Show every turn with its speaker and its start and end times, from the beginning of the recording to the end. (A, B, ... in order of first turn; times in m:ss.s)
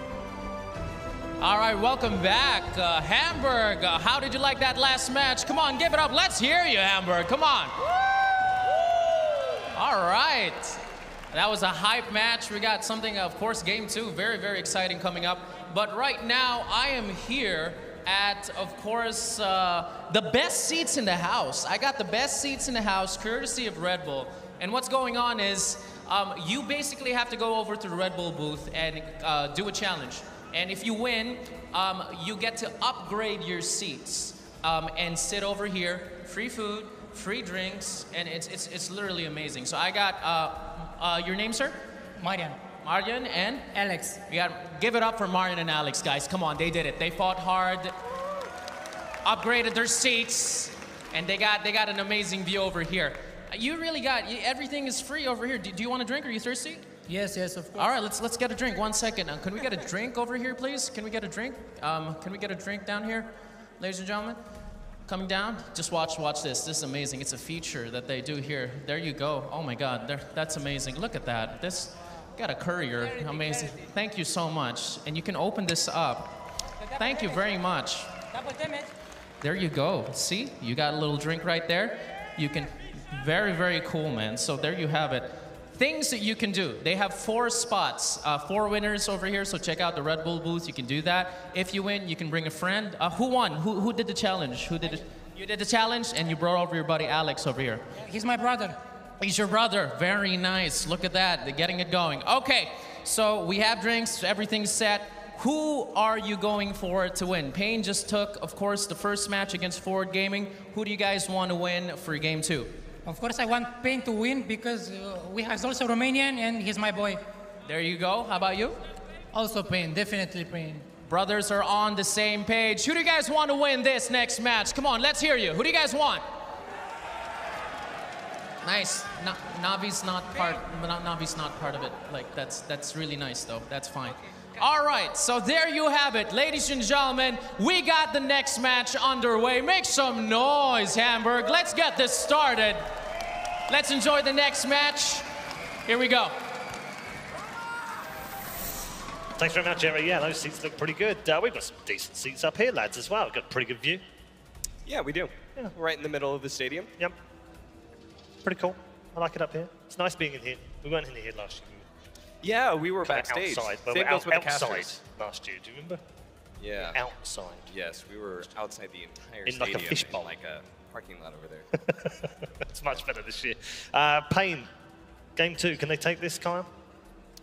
0:01.4-0:08.8 A
0:09.7-0:41.8 A
0:42.2-0:42.6 B
0:42.8-0:43.7 A
0:43.7-0:44.2 B
0:44.3-0:48.0 A
0:49.2-0:56.9 A
0:57.1-0:57.9 B
0:57.7-1:04.4 A
1:05.0-1:18.5 A
1:19.4-1:38.0 A
1:38.0-1:38.8 B
1:39.2-1:52.8 A
1:53.0-1:57.2 B
1:57.6-1:58.8 A
1:59.3-2:00.8 B
2:01.0-2:06.2 A
2:08.6-2:22.9 A
2:23.7-2:25.3 A
2:25.8-2:26.4 A
2:29.4-2:34.0 C
2:34.8-2:36.9 D
2:38.4-2:41.8 C
2:42.4-2:45.0 D
2:43.0-2:46.0 C
2:46.6-2:47.0 D
2:46.8-2:47.7 C
2:47.7-2:51.7 D
2:49.4-2:50.3 C
2:51.9-2:54.7 C
2:55.4-2:56.7 C